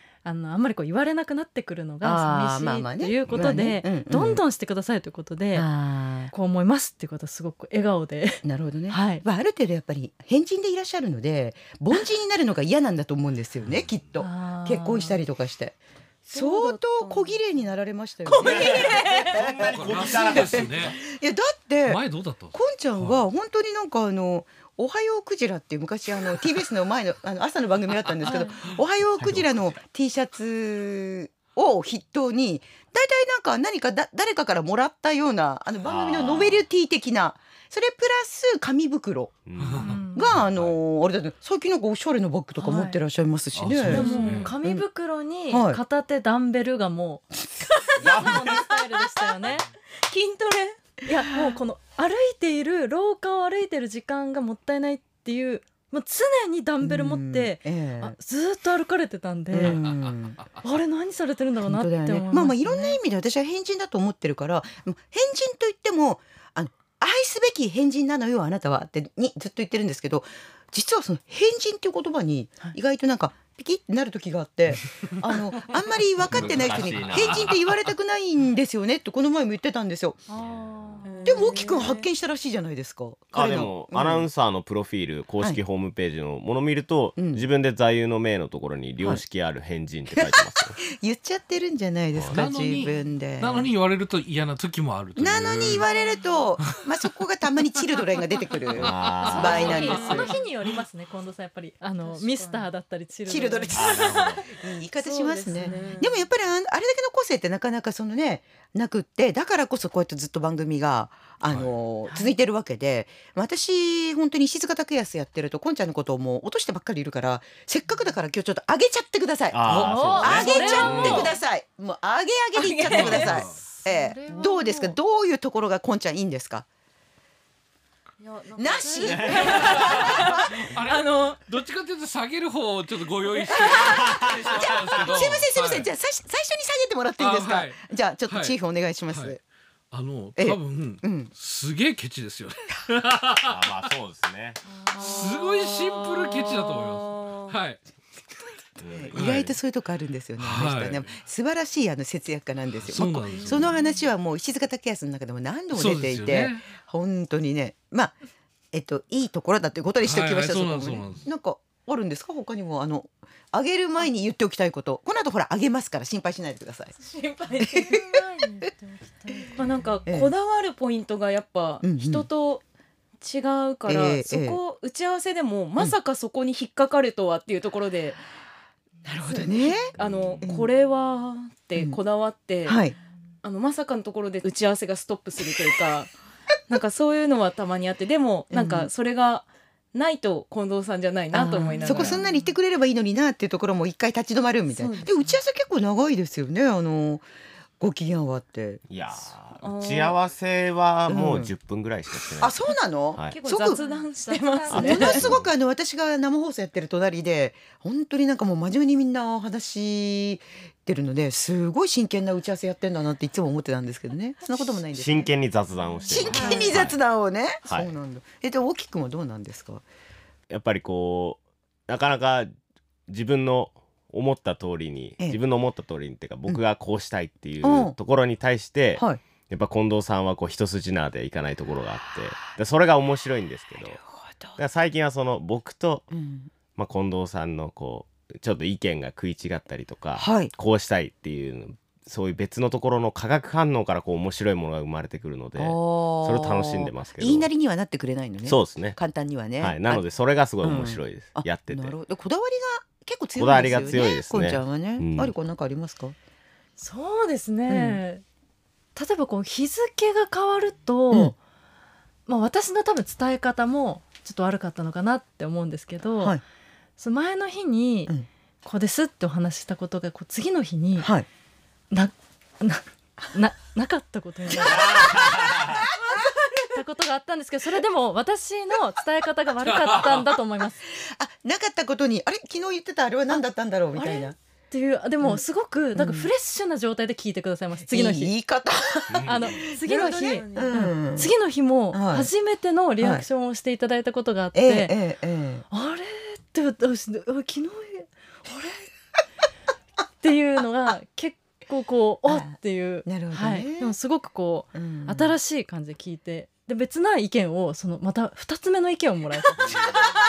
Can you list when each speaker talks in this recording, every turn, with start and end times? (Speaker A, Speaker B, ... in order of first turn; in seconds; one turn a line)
Speaker A: 0.2-5.7
Speaker B: 2.0-4.4
Speaker C: 3.3-3.5
Speaker B: 5.5-6.3
Speaker A: 6.3-9.2
Speaker B: 8.4-22.0
Speaker A: 14.2-15.2
Speaker D: 16.3-17.4
Speaker D: 18.2-19.4
Speaker C: 18.4-20.9
Speaker E: 19.4-21.0
Speaker E: 21.8-23.2
Speaker B: 22.5-39.4
Speaker A: 28.2-28.6
Speaker C: 29.2-29.7
Speaker C: 35.8-36.6
Speaker C: 39.5-40.0
Speaker E: 39.6-40.7
Speaker A: 39.8-40.3
Speaker B: 40.1-44.9
Speaker A: 42.6-43.0
Speaker E: 43.5-44.5
Speaker A: 43.9-47.4
Speaker D: 44.0-44.3
Speaker B: 45.5-45.8
Speaker D: 47.9-48.6
Speaker A: 47.9-49.6
Speaker C: 48.0-48.6
Speaker D: 50.1-50.8
Speaker A: 51.0-59.8
Speaker B: 56.8-58.1
Speaker B: 59.5-60.4
Speaker A: 60.6-63.0
Speaker B: 61.6-80.2
Speaker C: 76.2-77.6
Speaker E: 76.3-77.7
Speaker A: 80.3-81.8
Speaker D: 81.0-82.0
Speaker B: 81.2-84.3
Speaker C: 83.3-90.8
Speaker B: 87.2-87.5
Speaker B: 90.1-93.7
Speaker C: 92.1-92.5
Speaker E: 92.3-95.9
Speaker B: 95.2-100.3
Speaker C: 98.7-99.9
Speaker E: 98.8-99.8
Speaker A: 99.3-103.9
Speaker D: 99.6-100.4
Speaker D: 102.0-102.7
Speaker B: 103.2-126.7
Speaker C: 103.7-104.4
Speaker D: 103.9-104.5
Speaker D: 105.0-106.2
Speaker A: 105.5-106.0
Speaker C: 119.5-121.3
Speaker E: 119.7-120.4
Speaker A: 119.7-121.3
Speaker D: 120.3-121.3
Speaker D: 122.5-123.4
Speaker E: 122.9-123.6
Speaker A: 123.5-125.0
Speaker D: 128.3-131.4
Speaker A: 128.4-129.6
Speaker B: 128.6-130.5
Speaker C: 129.0-129.9
Speaker E: 129.5-135.9
Speaker B: 133.5-139.4
Speaker C: 133.7-135.2
Speaker E: 137.2-138.6
Speaker E: 139.1-139.4
Speaker E: 139.9-143.6
Speaker B: 140.3-141.3
Speaker C: 143.4-144.6
Speaker D: 144.9-147.6
Speaker E: 144.9-147.8
Speaker C: 148.8-149.5
Speaker B: 148.8-158.1
Speaker E: 149.1-149.5
Speaker E: 150.4-151.1
Speaker E: 152.8-153.8
Speaker E: 155.7-156.7
Speaker B: 158.7-166.9
Speaker E: 160.0-161.2
Speaker D: 167.0-168.0
Speaker B: 167.6-168.0
Speaker A: 167.7-169.6
Speaker D: 169.5-172.6
Speaker B: 170.1-170.3
Speaker B: 171.8-172.3
Speaker D: 173.2-178.2
Speaker B: 173.8-174.6
Speaker B: 179.0-180.7
Speaker D: 179.3-182.8
Speaker C: 180.0-180.4
Speaker B: 181.7-182.0
Speaker B: 182.7-182.9
Speaker D: 183.4-186.1
Speaker D: 186.7-192.3
Speaker B: 188.5-188.9
Speaker B: 191.3-197.2
Speaker A: 191.9-192.2
Speaker D: 194.7-195.2
Speaker B: 197.8-198.8
Speaker C: 198.9-202.6
Speaker D: 199.6-200.2
Speaker B: 201.1-201.5
Speaker B: 202.4-203.8
Speaker D: 203.3-205.2
Speaker A: 203.6-205.2
Speaker B: 204.7-215.3
Speaker C: 204.7-205.5
Speaker C: 214.9-217.0
Speaker B: 216.1-219.8
Speaker A: 216.2-216.7
Speaker C: 220.5-222.5
Speaker C: 223.1-234.0
Speaker B: 227.6-227.9
Speaker B: 228.9-229.2
Speaker B: 234.0-234.6
Speaker C: 234.6-236.1
Speaker B: 236.1-236.5
Speaker C: 236.7-247.5
Speaker B: 240.2-240.5
Speaker B: 245.6-250.0
Speaker C: 248.4-249.0
Speaker C: 249.6-251.9
Speaker B: 250.6-256.1
Speaker C: 253.3-255.3
Speaker A: 256.8-258.2
Speaker B: 257.7-258.0
Speaker A: 258.9-261.4
Speaker A: 262.3-266.4
Speaker A: 267.0-271.1
Speaker B: 271.0-271.3
Speaker A: 271.9-275.3
Speaker B: 274.5-276.6
Speaker C: 274.6-275.8
Speaker A: 276.7-280.8
Speaker E: 279.6-280.2
Speaker B: 280.9-284.3
Speaker A: 283.9-288.3
Speaker B: 285.9-286.3
Speaker B: 287.8-291.3
Speaker C: 289.1-289.6
Speaker A: 289.2-294.9
Speaker D: 289.9-290.8
Speaker B: 291.9-292.3
Speaker B: 293.0-293.2
Speaker B: 294.5-295.6
Speaker A: 295.7-298.9
Speaker A: 300.2-310.0
Speaker B: 302.3-303.9
Speaker B: 304.7-305.4
Speaker C: 309.6-310.0